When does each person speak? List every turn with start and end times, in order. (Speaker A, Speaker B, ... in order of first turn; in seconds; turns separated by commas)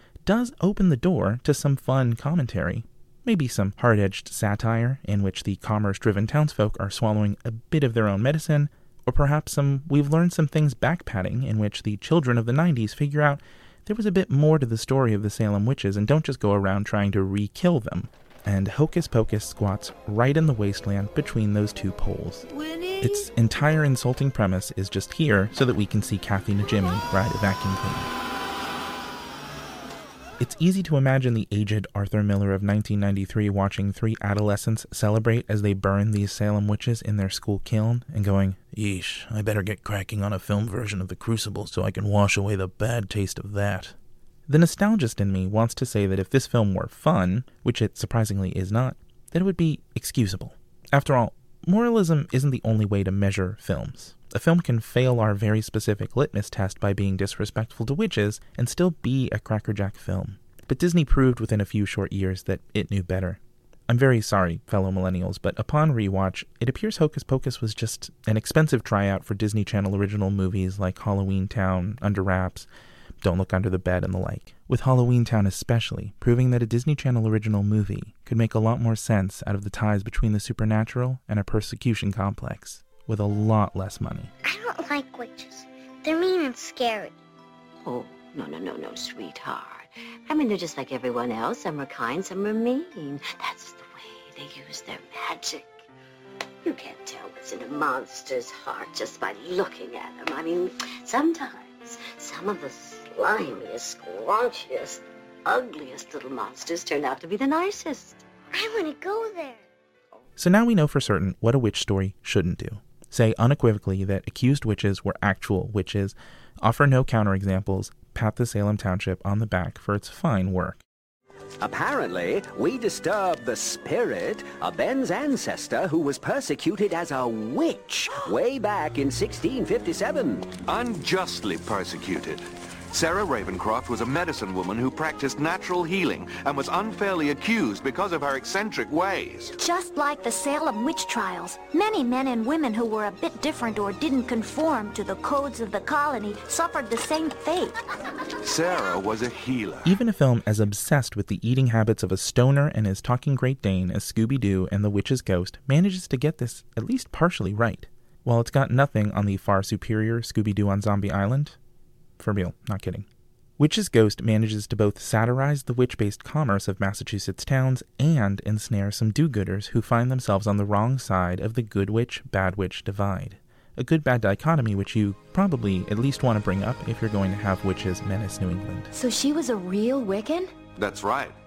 Speaker A: 0.2-22.4, Speaker A: 23.0-28.1, Speaker A: 30.4-44.0, Speaker A: 44.5-72.7, Speaker A: 73.2-84.3, Speaker B: 84.4-87.2, Speaker C: 87.8-95.8, Speaker C: 96.6-108.3, Speaker B: 108.5-109.7, Speaker A: 110.4-120.8, Speaker D: 121.6-130.5, Speaker E: 130.6-139.5, Speaker F: 139.6-147.8, Speaker E: 148.4-149.8, Speaker A: 149.8-161.6, Speaker A: 162.2-163.1, Speaker A: 163.6-178.9, Speaker F: 178.9-180.5, Speaker E: 180.8-181.4